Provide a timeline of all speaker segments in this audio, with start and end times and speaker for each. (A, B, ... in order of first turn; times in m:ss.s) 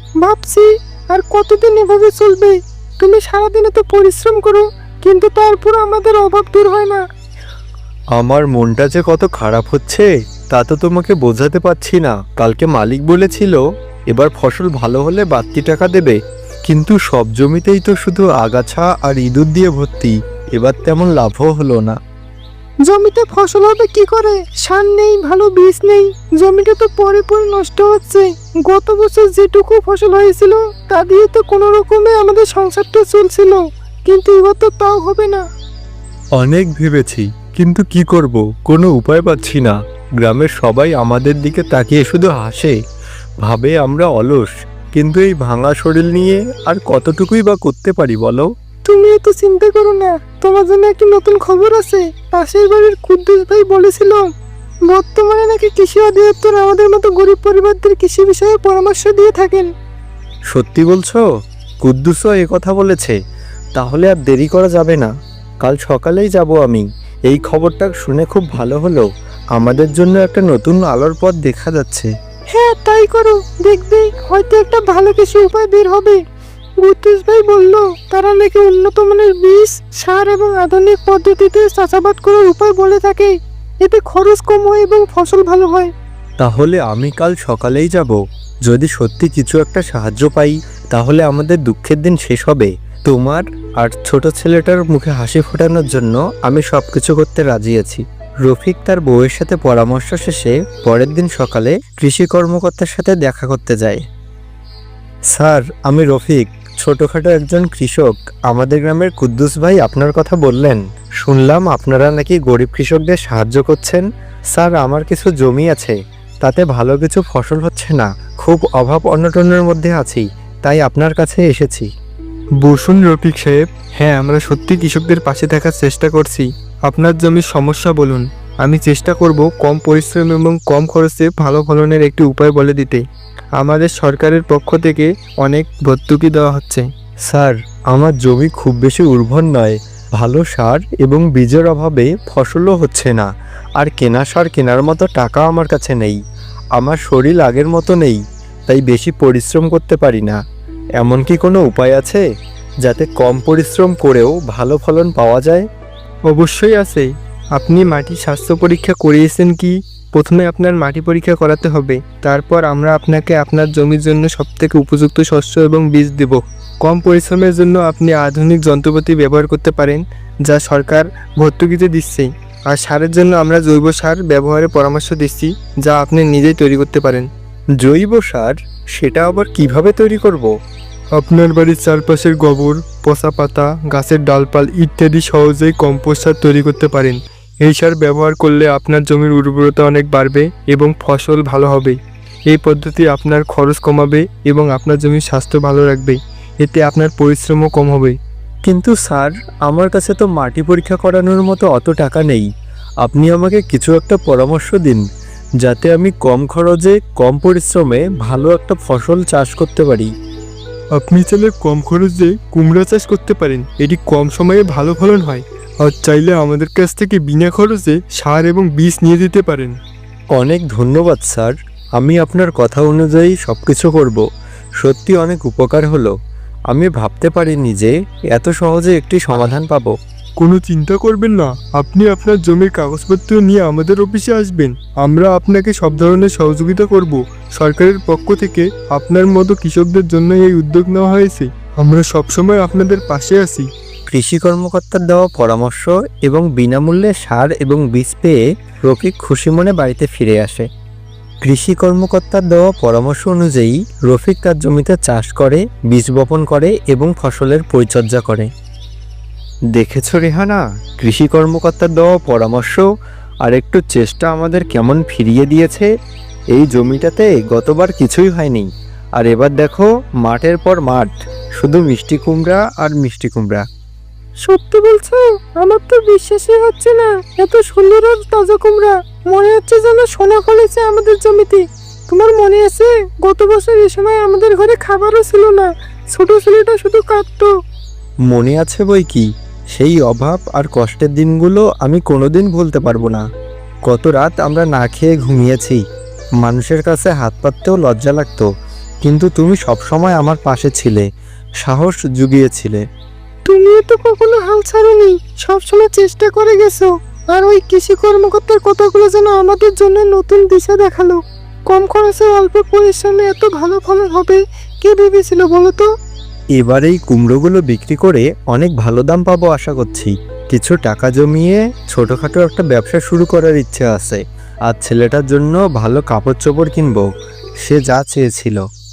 0:00.2-0:07.0 A
0:08.2-0:22.0 B
0:22.9-0:35.4 A
0:36.4-0:42.8 B
0:43.4-0:48.5 B
0:48.9-0:54.3 A
0:54.9-0:59.7 A
1:00.5-1:01.2 B
1:01.8-1:03.2 B
1:03.8-1:05.1 B
1:05.6-1:12.1 B
1:12.5-1:16.2 A
1:16.8-1:25.9 A
1:26.4-1:44.0 B
1:45.3-2:01.9 B
2:02.6-2:13.0 C
2:13.6-2:16.9 C
2:17.3-2:23.3 B
2:23.8-2:26.2 B
2:26.8-2:30.4 B
2:31.0-2:32.2 B
2:32.8-2:35.7 B
2:36.3-2:57.3 C
2:57.8-3:00.5 B
3:01.2-3:12.0 C
3:12.5-3:18.2 C
3:18.6-3:22.5 B
3:23.0-3:25.0 B
3:25.6-3:30.1 B
3:31.0-3:39.8 C
3:40.4-3:44.2 B
3:44.8-3:46.1 B
3:46.7-3:49.9 B
3:50.4-4:03.7 C
4:04.1-4:10.6 B
4:11.4-4:18.5 B
4:19.7-4:22.9 B
4:23.4-4:25.9 B
4:26.5-4:33.6 B
4:34.4-4:47.5 A
4:48.3-4:53.2 B
4:53.9-4:55.8 B
4:56.4-4:58.5 B
4:59.0-5:01.0 B
5:01.6-5:02.8 B
5:03.5-5:15.9 A
5:16.6-5:27.1 B
5:27.6-5:28.6 B